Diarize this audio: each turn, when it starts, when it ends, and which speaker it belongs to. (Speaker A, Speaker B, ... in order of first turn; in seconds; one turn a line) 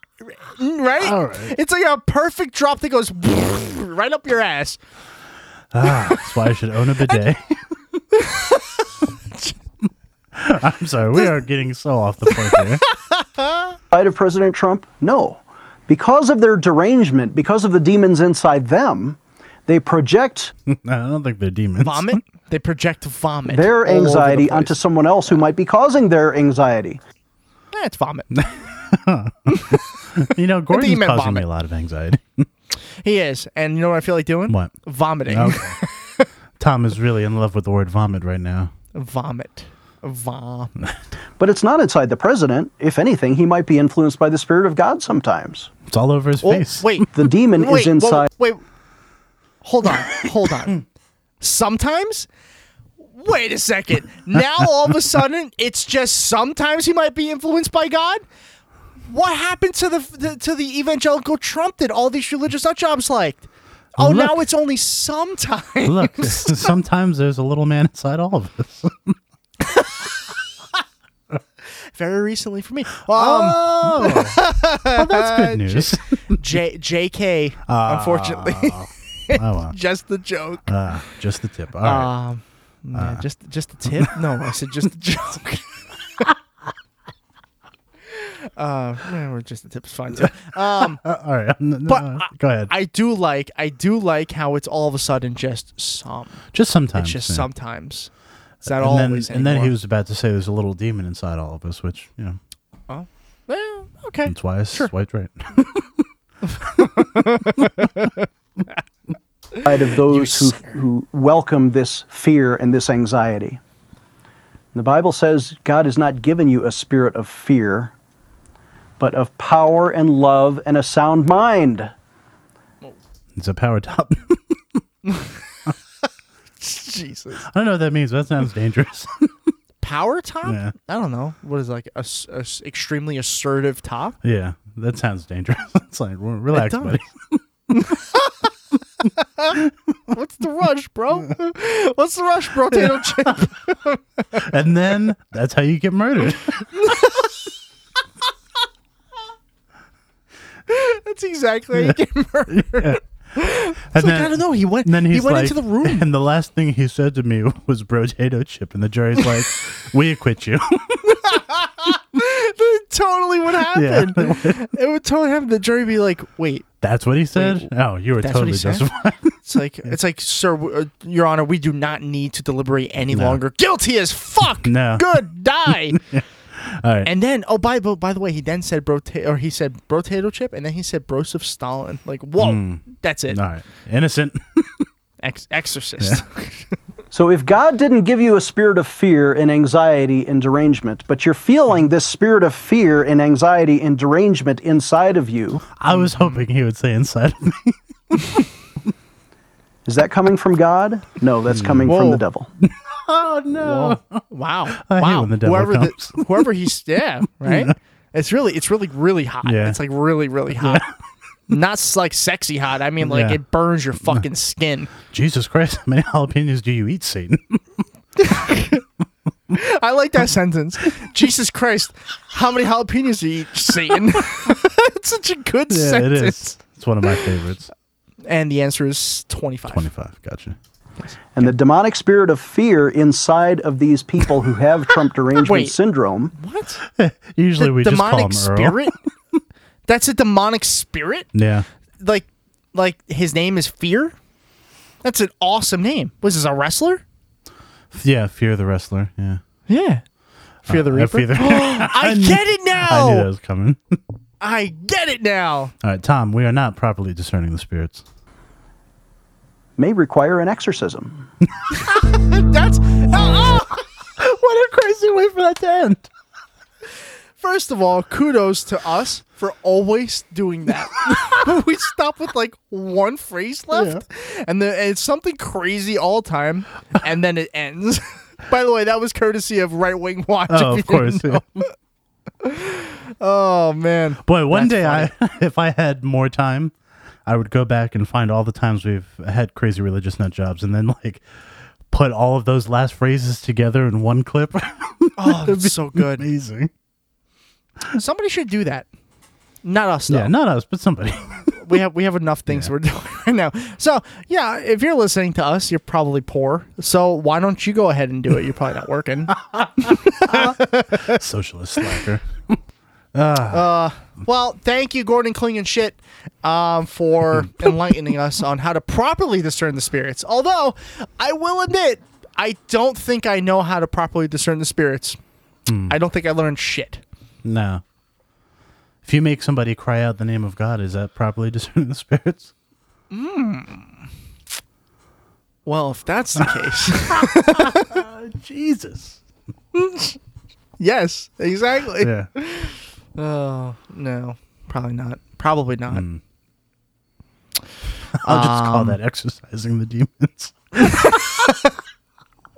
Speaker A: 0.5-4.8
Speaker B: 1.0-1.6
Speaker B: 5.7-8.0
Speaker A: 8.2-8.9
Speaker B: 10.3-12.8
Speaker A: 12.3-13.8
Speaker C: 13.9-20.5
Speaker B: 20.7-22.2
Speaker A: 21.8-25.4
Speaker C: 23.5-27.0
Speaker A: 27.7-28.3
Speaker B: 28.3-32.5
Speaker A: 29.5-29.8
Speaker A: 30.7-31.4
Speaker A: 33.0-36.3
Speaker B: 34.5-34.7
Speaker B: 35.3-35.8
Speaker B: 36.6-38.7
Speaker A: 38.9-40.8
Speaker C: 41.4-45.7
Speaker B: 45.9-47.1
Speaker A: 46.4-48.6
Speaker C: 47.1-48.3
Speaker A: 49.6-50.8
Speaker A: 51.4-52.3
Speaker A: 53.1-58.2
Speaker A: 59.1-66.7
Speaker B: 64.0-64.4
Speaker B: 65.8-69.2
Speaker A: 72.0-80.7
Speaker B: 73.1-76.4
Speaker B: 77.7-79.8
Speaker B: 80.7-82.1
Speaker A: 81.8-86.3
Speaker B: 82.9-83.2
Speaker A: 88.1-91.0
Speaker B: 90.2-92.7
Speaker A: 91.9-96.4
Speaker B: 96.5-97.5
Speaker A: 96.9-98.1
Speaker B: 98.6-102.4
Speaker A: 98.6-99.8
Speaker A: 102.9-104.9
Speaker B: 104.3-106.0
Speaker A: 106.5-108.3
Speaker C: 109.6-113.6
Speaker A: 110.0-110.8
Speaker C: 114.7-117.9
Speaker C: 119.0-121.9
Speaker B: 123.4-124.8
Speaker A: 126.6-127.5
Speaker B: 127.4-129.3
Speaker A: 129.8-134.2
Speaker B: 130.4-130.8
Speaker B: 134.2-137.9
Speaker A: 136.5-137.0
Speaker A: 137.7-138.3
Speaker A: 139.1-139.6
Speaker A: 140.1-144.4
Speaker B: 142.7-143.5
Speaker B: 144.4-147.3
Speaker A: 146.8-147.3
Speaker A: 150.7-156.1
Speaker B: 152.5-153.0
Speaker B: 153.9-161.4
Speaker A: 161.2-166.7
Speaker B: 163.6-164.7
Speaker B: 166.8-169.4
Speaker A: 167.3-168.8
Speaker A: 169.4-176.0
Speaker B: 173.1-173.4
Speaker B: 174.6-177.1
Speaker A: 177.1-183.4
Speaker B: 182.4-184.9
Speaker A: 185.2-186.7
Speaker C: 187.1-195.6
Speaker B: 195.7-198.5
Speaker A: 195.9-196.4
Speaker C: 199.9-202.5
Speaker B: 201.5-202.0
Speaker A: 201.9-202.2
Speaker B: 202.6-204.2
Speaker A: 203.6-210.9
Speaker B: 204.8-206.5
Speaker B: 207.4-207.8
Speaker B: 209.4-209.8
Speaker B: 210.5-210.9
Speaker A: 211.5-214.9
Speaker B: 213.0-213.4
Speaker B: 215.1-217.6
Speaker A: 218.2-218.8
Speaker A: 219.5-227.3
Speaker B: 225.7-227.7
Speaker A: 228.2-229.8
Speaker B: 229.7-230.6
Speaker A: 231.0-231.5
Speaker C: 231.3-236.3
Speaker A: 235.4-235.8
Speaker A: 236.3-236.8
Speaker B: 236.9-238.9
Speaker A: 237.6-238.9
Speaker A: 239.9-241.3
Speaker B: 241.3-241.7
Speaker A: 242.0-244.2
Speaker A: 245.0-247.0
Speaker B: 247.9-249.4
Speaker A: 249.7-250.0
Speaker A: 250.7-253.3
Speaker B: 250.7-254.0
Speaker A: 254.4-255.7
Speaker B: 255.8-258.1
Speaker C: 259.8-261.3
Speaker A: 262.0-263.8
Speaker B: 264.2-266.1
Speaker A: 267.4-281.6
Speaker B: 273.7-274.0
Speaker B: 280.5-281.7
Speaker A: 282.4-285.1
Speaker B: 284.2-286.7
Speaker B: 287.2-291.2
Speaker B: 291.9-296.7
Speaker A: 295.2-296.3
Speaker A: 297.9-298.9
Speaker A: 299.6-300.3
Speaker B: 300.1-301.8
Speaker A: 301.5-311.2
Speaker B: 309.3-312.6
Speaker B: 313.1-313.7
Speaker A: 313.5-325.2
Speaker B: 317.3-317.8
Speaker B: 325.7-326.0
Speaker A: 325.9-327.0
Speaker B: 327.4-327.8
Speaker B: 329.0-332.5
Speaker A: 333.1-333.9
Speaker A: 335.7-338.0
Speaker B: 337.1-339.2
Speaker A: 339.7-340.2
Speaker A: 340.8-346.1
Speaker B: 342.0-342.3
Speaker B: 345.9-346.2
Speaker B: 348.2-351.3
Speaker A: 348.2-349.0
Speaker A: 350.8-351.7